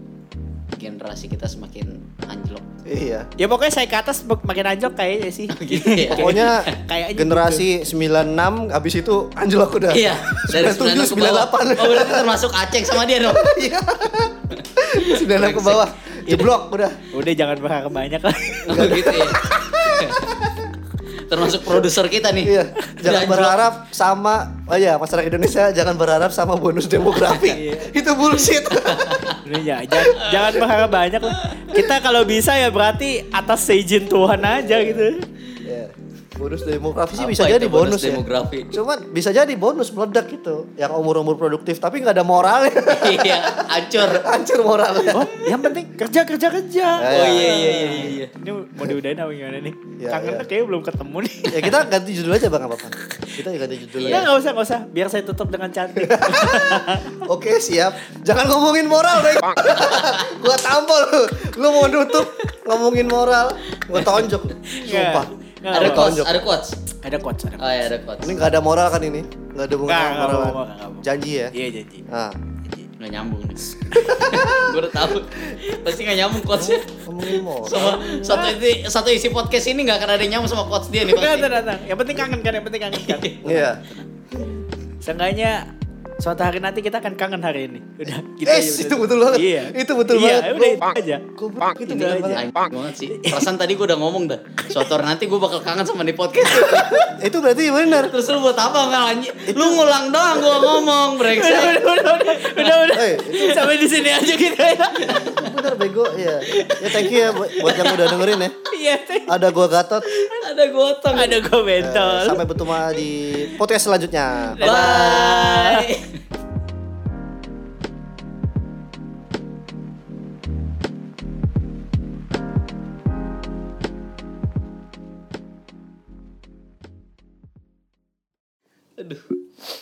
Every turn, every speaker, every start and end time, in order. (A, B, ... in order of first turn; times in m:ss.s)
0:00.7-0:02.7 A
0:02.8-0:03.3 B
0:03.4-0:07.6 C
0:05.5-0:06.7 A
0:06.1-0:12.3 B
0:09.9-0:13.5 A
0:13.2-0:17.0 B
0:14.6-0:16.5 A
0:17.1-0:19.4 C
0:18.7-0:20.4 A
0:18.7-0:20.6 B
0:21.2-0:23.7 A
0:22.4-0:29.3 B
0:27.4-0:27.9 C
0:28.8-0:29.4 A
0:29.4-0:35.2 C
0:30.1-0:30.6 A
0:31.4-0:31.7 A
0:35.6-0:45.3 B
0:37.2-0:38.7 A
0:42.9-0:44.2 A
0:45.1-0:51.9 C
0:46.9-0:48.0 B
0:47.1-0:48.3 A
0:50.0-0:50.4 B
0:51.5-0:54.3 B
0:54.0-0:54.3 A
0:54.1-0:57.2 C
0:56.0-1:06.5 B
1:04.7-1:06.1 C
1:05.7-1:06.7 A
1:07.0-1:07.6 C
1:07.6-1:08.4 A
1:08.2-1:11.5 B
1:09.9-1:12.0 C
1:12.1-1:12.4 B
1:13.0-1:21.5 A
1:13.9-1:14.6 C
1:14.2-1:14.5 B
1:16.5-1:18.4 B
1:21.1-1:23.7 C
1:22.9-1:23.4 A
1:23.4-1:24.6 B
1:25.0-1:25.6 C
1:26.2-1:31.2 C
1:28.4-1:32.4 B
1:31.8-1:32.4 C
1:32.3-1:37.1 A
1:33.1-1:33.5 C
1:34.6-1:34.9 C
1:36.4-1:37.1 C
1:37.2-1:38.1 B
1:37.9-1:41.8 A
1:39.5-1:39.8 B
1:41.2-1:45.3 C
1:42.4-1:42.8 A
1:42.9-1:43.6 B
1:45.1-1:48.5 B
1:46.6-1:48.1 A
1:47.6-1:47.9 C
1:48.7-1:49.4 C
1:49.3-1:50.1 B
1:50.0-1:50.4 C
1:50.4-1:51.4 A
1:51.1-1:52.5 C
1:51.8-1:55.4 B
1:54.4-1:55.8 C
1:54.6-1:56.2 A
2:09.0-2:09.2 A